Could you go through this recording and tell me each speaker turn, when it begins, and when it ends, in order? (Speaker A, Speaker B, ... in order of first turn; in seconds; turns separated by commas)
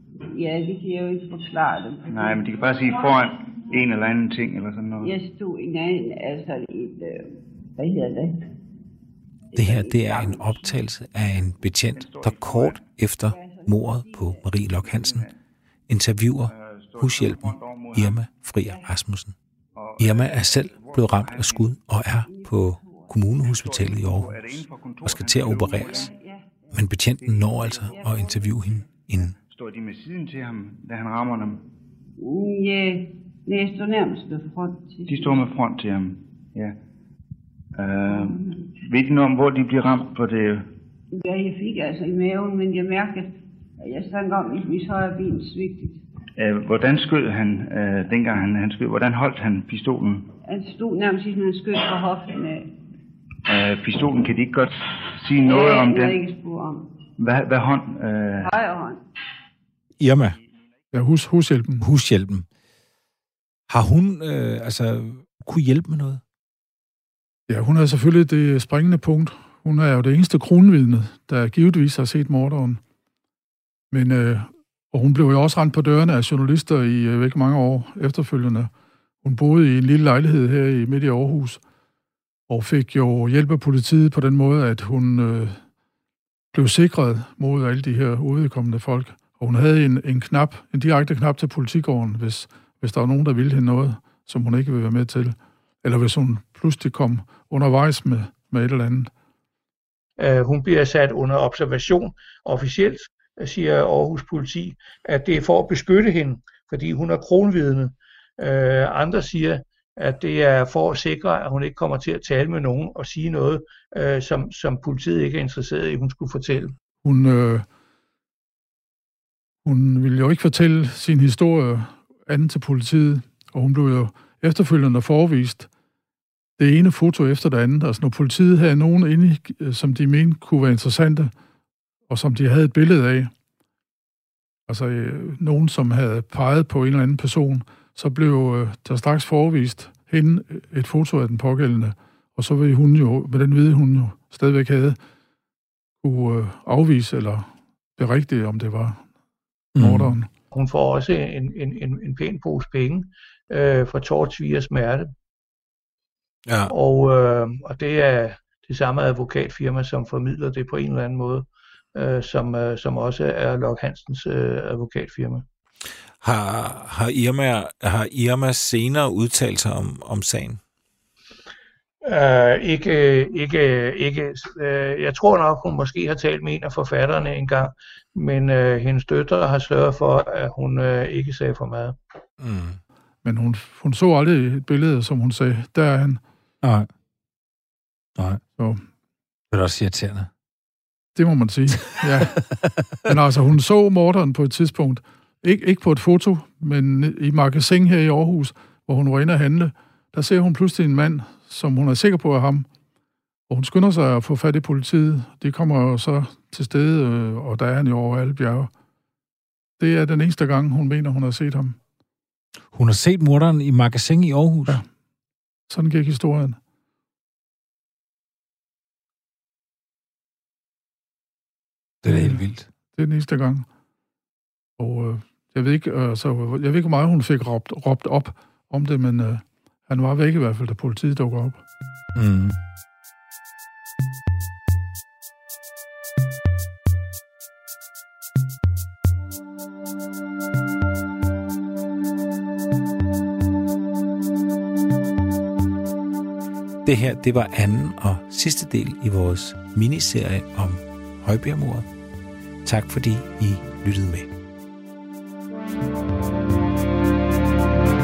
Speaker A: 0.3-3.0, Speaker B: 2.1-5.1, Speaker A: 5.0-8.5, Speaker A: 9.5-10.7, Speaker C: 9.5-15.3, Speaker B: 11.9-12.8, Speaker A: 13.2-14.6, Speaker B: 14.8-15.3, Speaker C: 15.9-19.3, Speaker B: 16.5-18.2, Speaker A: 18.6-18.9, Speaker B: 19.8-21.7, Speaker C: 20.0-26.1, Speaker A: 22.2-23.2, Speaker B: 23.4-26.1, Speaker A: 25.7-26.9, Speaker C: 26.7-29.4, Speaker B: 27.2-31.6, Speaker A: 27.8-28.9, Speaker A: 32.2-35.4, Speaker B: 35.1-36.8, Speaker B: 37.8-40.7, Speaker A: 38.1-38.6, Speaker A: 41.1-46.0, Speaker B: 46.4-50.3, Speaker A: 50.5-52.7, Speaker B: 53.5-56.2, Speaker A: 55.4-56.9, Speaker B: 57.2-58.6, Speaker A: 58.4-59.0, Speaker C: 60.0-60.4, Speaker D: 60.9-61.8, Speaker C: 61.8-62.5, Speaker C: 63.7-66.2, Speaker D: 67.5-72.8, Speaker D: 73.9-78.7, Speaker D: 79.2-81.6, Speaker D: 82.5-85.6, Speaker D: 86.5-99.1, Speaker E: 100.2-116.7, Speaker D: 117.0-117.7, Speaker D: 119.6-125.7, Speaker D: 126.6-131.3, Speaker D: 132.1-133.3, Speaker D: 134.7-145.0, Speaker D: 146.0-149.1, Speaker C: 149.8-150.2, Speaker D: 149.8-150.3, Speaker E: 150.5-155.1, Speaker C: 156.5-156.7, Speaker E: 156.7-165.4, Speaker C: 166.2-170.6, Speaker E: 172.0-181.9, Speaker C: 182.4-182.8, Speaker D: 183.2-186.2, Speaker C: 186.6-186.9, Speaker C: 189.5-190.3, Speaker D: 191.1-192.4, Speaker C: 191.9-193.0, Speaker D: 193.0-202.7, Speaker D: 203.5-208.7, Speaker D: 209.8-211.8, Speaker C: 212.7-214.8, Speaker D: 215.7-216.6, Speaker C: 222.0-222.7, Speaker D: 222.1-223.7, Speaker D: 224.8-231.6, Speaker C: 232.1-232.6, Speaker C: 246.8-251.9, Speaker C: 252.6-254.3